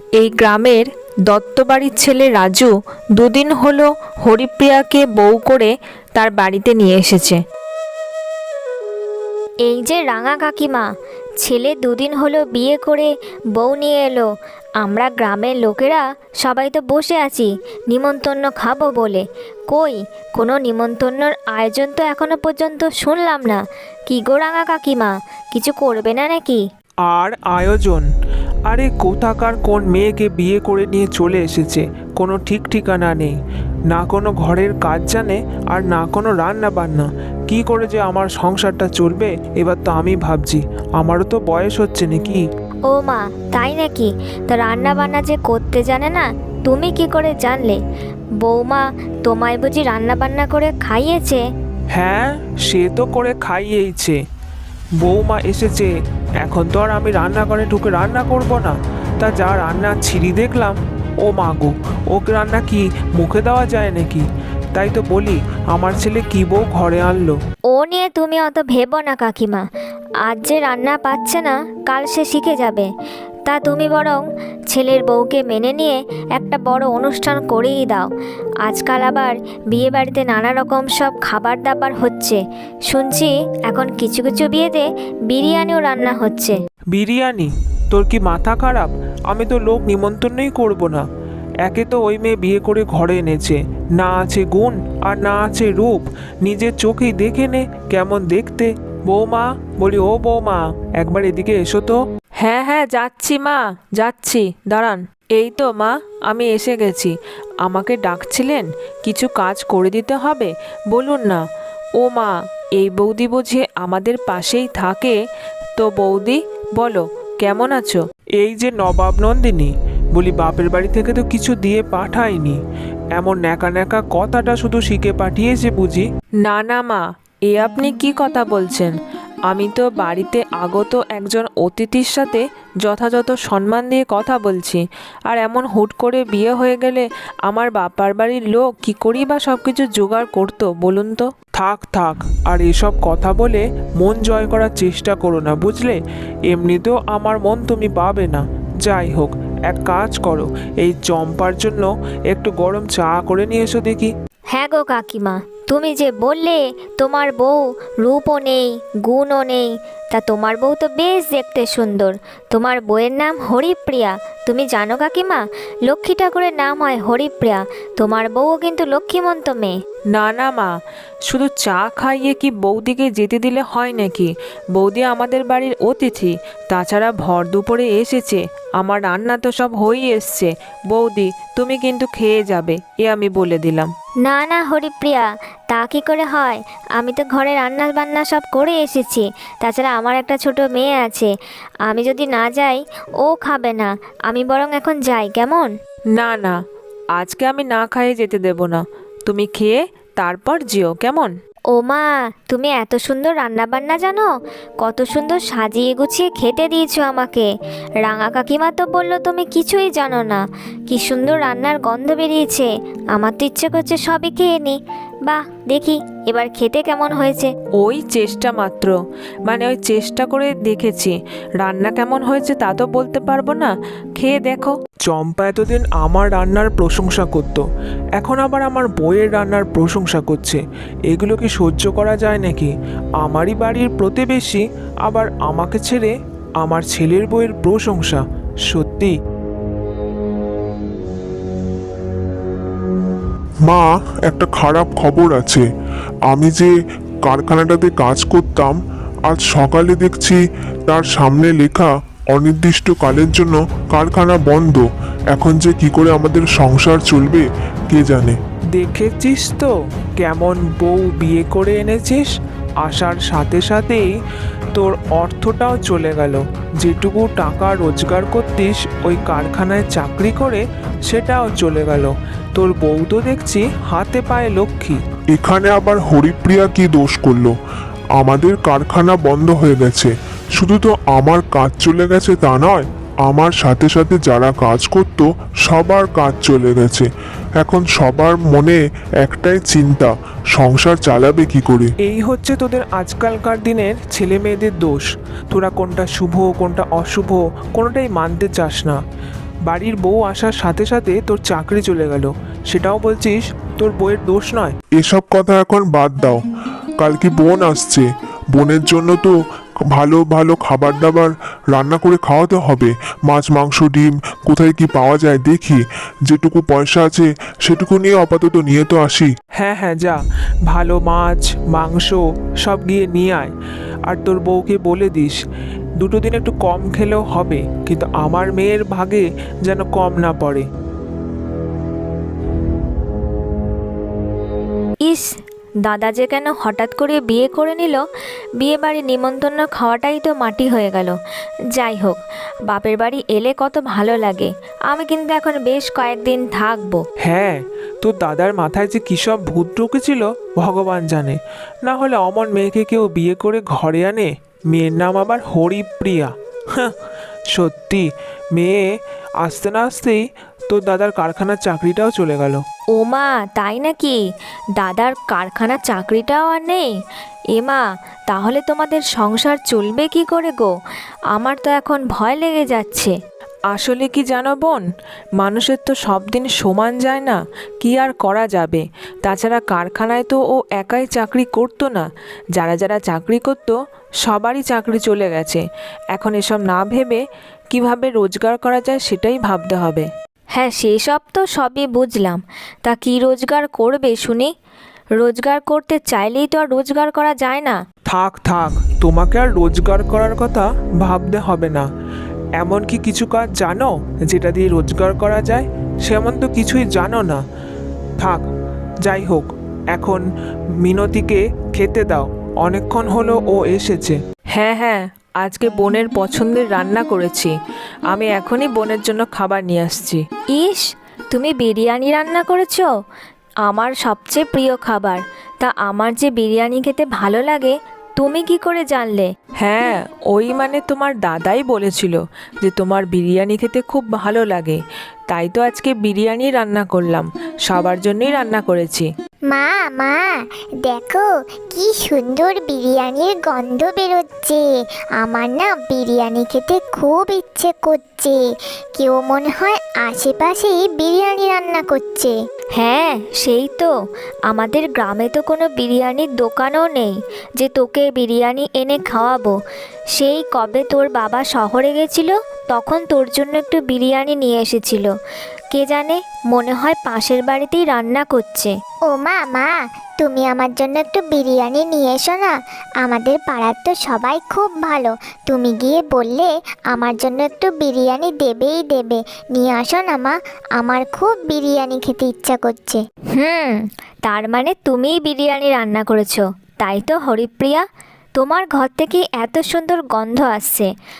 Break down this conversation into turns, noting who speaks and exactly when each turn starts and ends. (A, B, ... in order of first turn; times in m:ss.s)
0:00.2-0:07.4 A
0:09.6-0:10.9 B
0:11.4-0:14.3 B
0:14.8-0:26.6 B
0:27.1-0:28.0 C
0:28.7-0:33.4 C
0:33.9-0:42.4 C
0:42.9-0:47.8 B
0:48.4-0:51.4 B
0:51.9-0:54.2 C
0:55.0-0:55.9 C
0:56.4-1:04.2 C
1:04.7-1:07.4 C
1:07.7-1:09.6 B
1:10.2-1:12.9 B
1:13.5-1:18.1 B
1:18.6-1:26.6 B
1:26.9-1:31.0 C
1:31.6-1:42.0 C
1:42.4-1:51.4 A
1:52.0-1:55.2 A
1:55.8-1:58.0 A
1:58.4-2:02.6 C
2:03.1-2:06.0 C
2:06.4-2:08.9 A
2:09.5-2:21.3 A
2:21.6-2:34.1 C
2:34.5-2:49.7 B
2:50.1-2:50.7 A
2:51.3-3:03.9 A
3:04.2-3:11.3 B
3:11.9-3:15.7 B
3:16.2-3:16.6 A
3:17.1-3:21.3 A
3:21.7-3:24.3 B
3:24.8-3:27.5 B
3:28.0-3:37.5 B
3:37.8-3:44.8 A
3:45.1-3:47.6 C
3:48.2-3:59.2 C
4:03.6-4:05.6 D
4:06.3-4:06.7 D
4:07.2-4:18.4 D
4:18.7-4:22.2 C
4:22.8-4:24.1 C
4:24.7-4:35.0 C
4:35.3-4:37.5 D
4:38.2-4:47.1 D
4:47.6-4:51.9 D
4:52.0-4:59.0 C
4:59.7-5:04.7 C
5:05.0-5:06.4 D
5:07.0-5:09.3 D
5:09.9-5:19.3 D
5:19.6-5:20.2 C
5:20.7-5:23.5 C
5:24.1-5:25.4 C
5:26.0-5:30.6 C
5:35.9-5:38.0 B
5:38.6-5:41.1 B
5:41.8-5:42.2 B
5:42.7-5:47.0 B
5:47.2-5:56.9 C
5:57.5-5:58.8 C
5:59.4-6:02.6 C
6:03.0-6:04.2 B
6:04.8-6:06.9 B
6:07.5-6:10.7 B
6:11.3-6:13.1 B
6:13.7-6:14.8 A
6:15.4-6:25.6 A
6:26.1-6:30.1 A
6:30.6-6:32.3 B
6:32.9-6:34.4 B
6:34.0-6:34.4 A
6:35.2-6:37.7 B
6:35.7-6:36.0 A
6:37.1-6:37.8 A
6:38.1-6:41.8 C
6:42.6-6:47.4 C
6:49.0-6:50.2 C
6:50.8-6:54.2 C
6:54.5-6:57.5 A
6:58.1-7:00.2 A
7:00.5-7:02.9 B
7:03.6-7:09.3 B
7:09.6-7:19.1 A
7:19.5-7:32.4 E
7:32.7-7:33.9 B
7:34.5-7:39.6 B
7:40.2-7:45.1 B
7:45.7-7:48.7 B
7:49.1-8:03.0 E
8:03.3-8:07.8 B
8:08.4-8:10.9 B